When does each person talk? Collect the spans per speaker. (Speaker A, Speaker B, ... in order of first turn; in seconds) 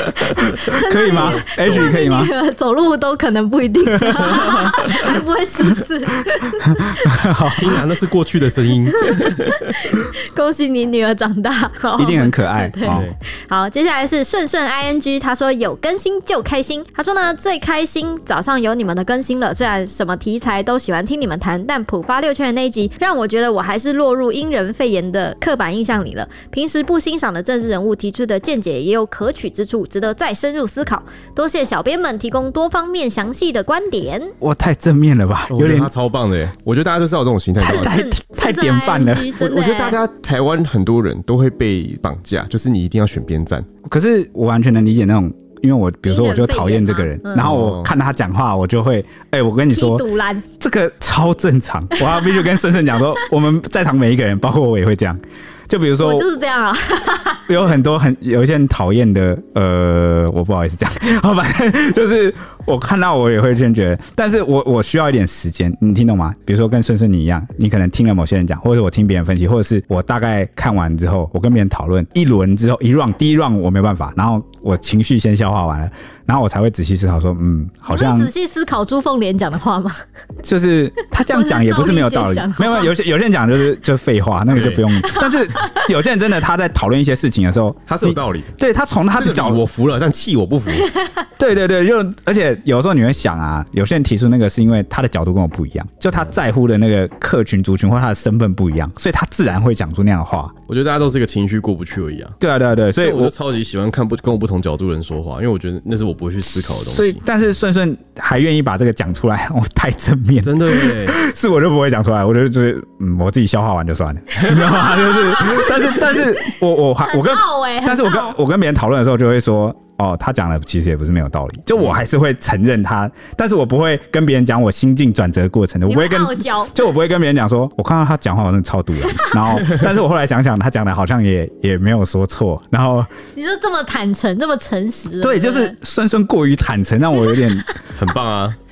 Speaker A: 0.3-7.0, 9.0-34.3, 37.6-40.0, 46.0-47.5, 49.7-50.4, 51.9-52.4, 56.0-57.5, 77.9-80.0, 81.2-82.9, 85.0-85.8, 114.5-118.4, 125.8-126.8, 129.0-129.4, 133.3-135.7
Speaker B: 0.7-2.3, 4.0-4.3, 6.7-7.8, 12.0-13.1, 34.4-35.9, 37.6-39.4, 43.8-50.0, 50.6-56.3, 57.5-78.3, 80.4-89.6, 91.4-100.5, 102.4-103.3, 106.9-133.1, 135.2-137.7
Speaker C: 1.1-1.9, 7.4-9.6, 12.8-13.1, 35.5-38.0, 39.4-43.7, 47.4-47.9, 84.5-84.8, 87.9-88.6, 89.1-90.9, 100.7-102.4, 103.0-107.2, 110.4-111.2, 114.3-115.0, 137.9-138.6